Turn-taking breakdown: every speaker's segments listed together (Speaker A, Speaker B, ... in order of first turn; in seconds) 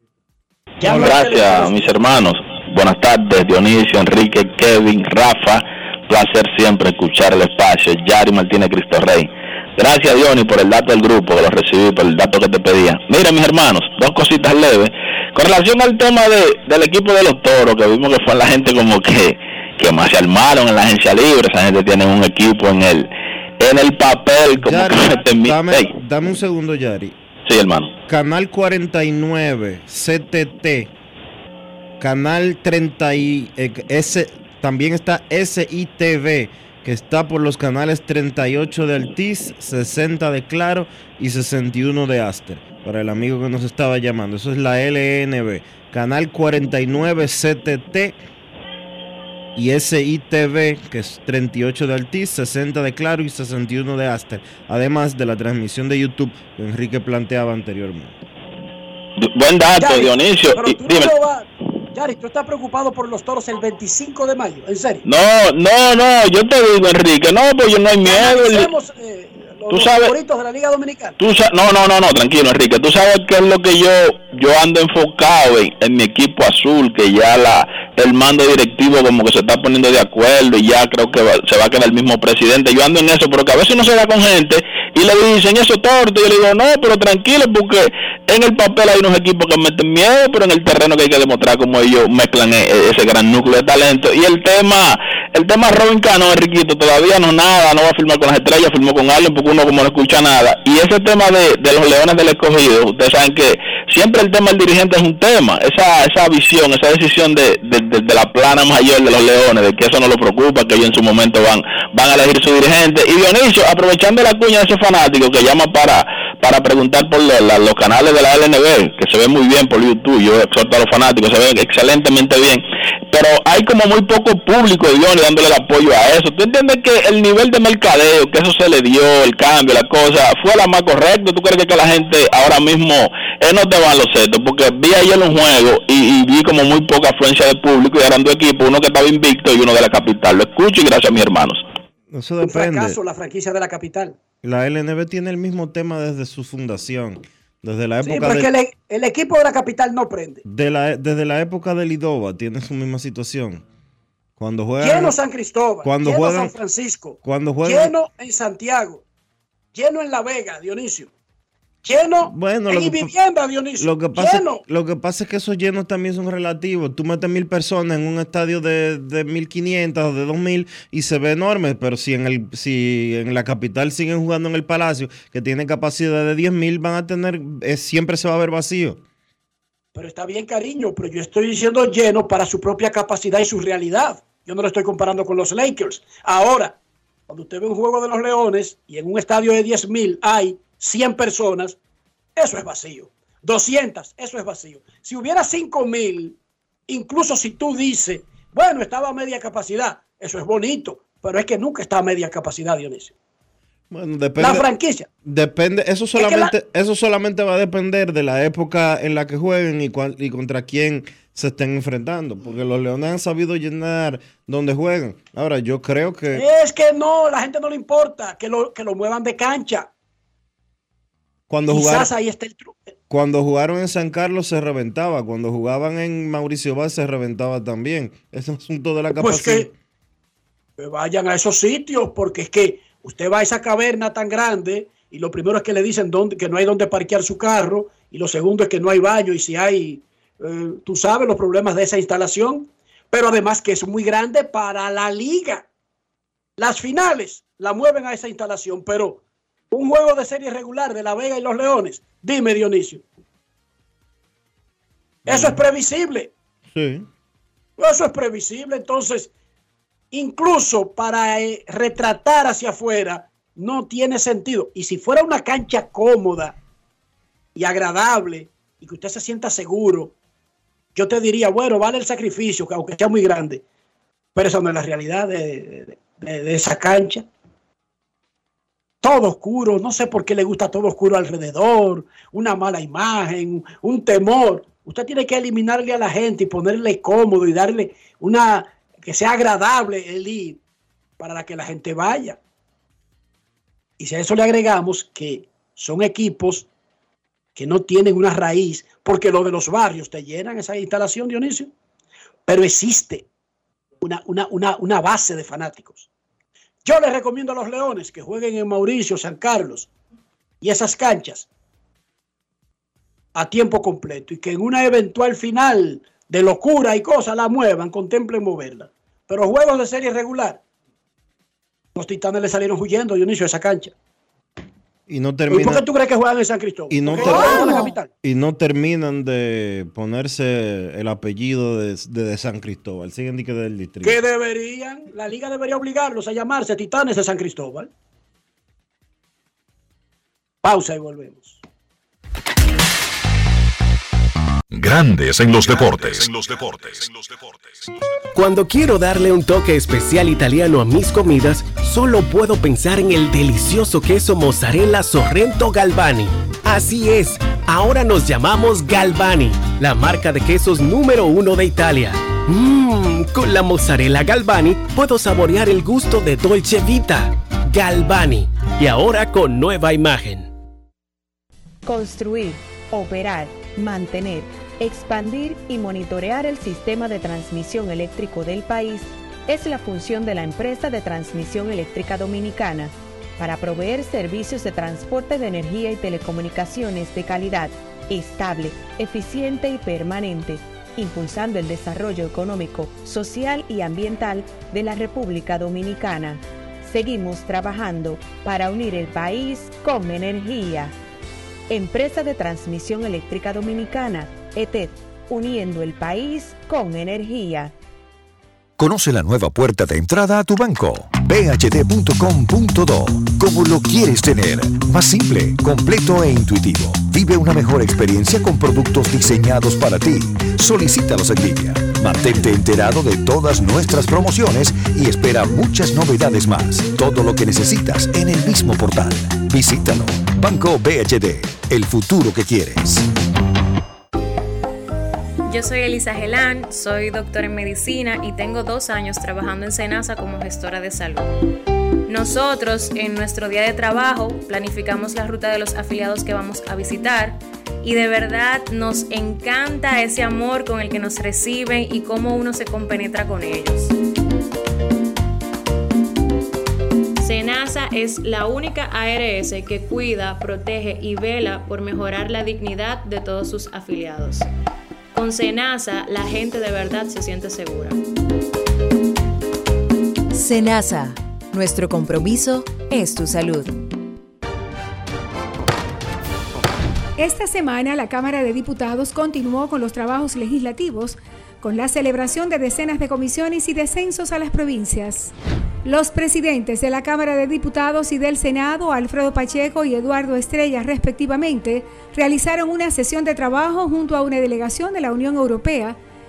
Speaker A: 0.8-1.9, 59.8-65.0, 68.0-71.2, 142.4-144.2, 148.0-150.4, 154.8-159.0, 159.7-161.1, 161.8-164.6, 179.9-191.8, 192.4-196.4, 196.9-203.1, 204.4-205.1, 206.2-206.5, 216.3-219.9, 221.7-222.8, 229.2-229.7, 230.8-245.7, 246.6-253.0, 255.2-256.3, 257.8-259.3, 260.1-266.6, 267.5-270.1, 270.9-273.6, 274.3-277.2, 279.0-290.6, 291.2-292.4, 294.0-296.7, 297.6-301.7, 302.5-303.3, 304.0-306.1, 306.8-309.9, 310.6-311.5, 313.3-320.6, 321.9-323.9, 325.5-328.1, 334.0-337.9, 340.6-341.6
Speaker B: 0.8-23.1, 23.6-25.9, 27.4-27.9, 59.2-61.1, 65.0-68.7, 69.7-70.1, 71.2-141.6
Speaker C: 24.6-27.1, 28.1-30.9, 32.0-48.2, 49.5-58.2, 142.1-143.0, 144.4-148.5, 150.4-153.6, 154.4-155.1, 155.8-156.5, 157.2-157.9, 162.2-163.1, 163.8-179.0, 203.9-204.7, 205.2-216.4, 221.5-222.1, 223.1-229.7, 255.3-255.6, 256.7-257.1, 325.1-325.8, 326.9-334.2
Speaker D: 344.7-347.8
Speaker E: 348.4-370.5
Speaker F: 371.8-400.9, 401.7-407.7
Speaker G: 408.8-433.1
Speaker H: 435.5-441.3, 442.1-453.9, 457.2-464.5, 465.1-468.0
Speaker I: 470.3-473.7
Speaker J: 477.2-485.3, 485.8-496.0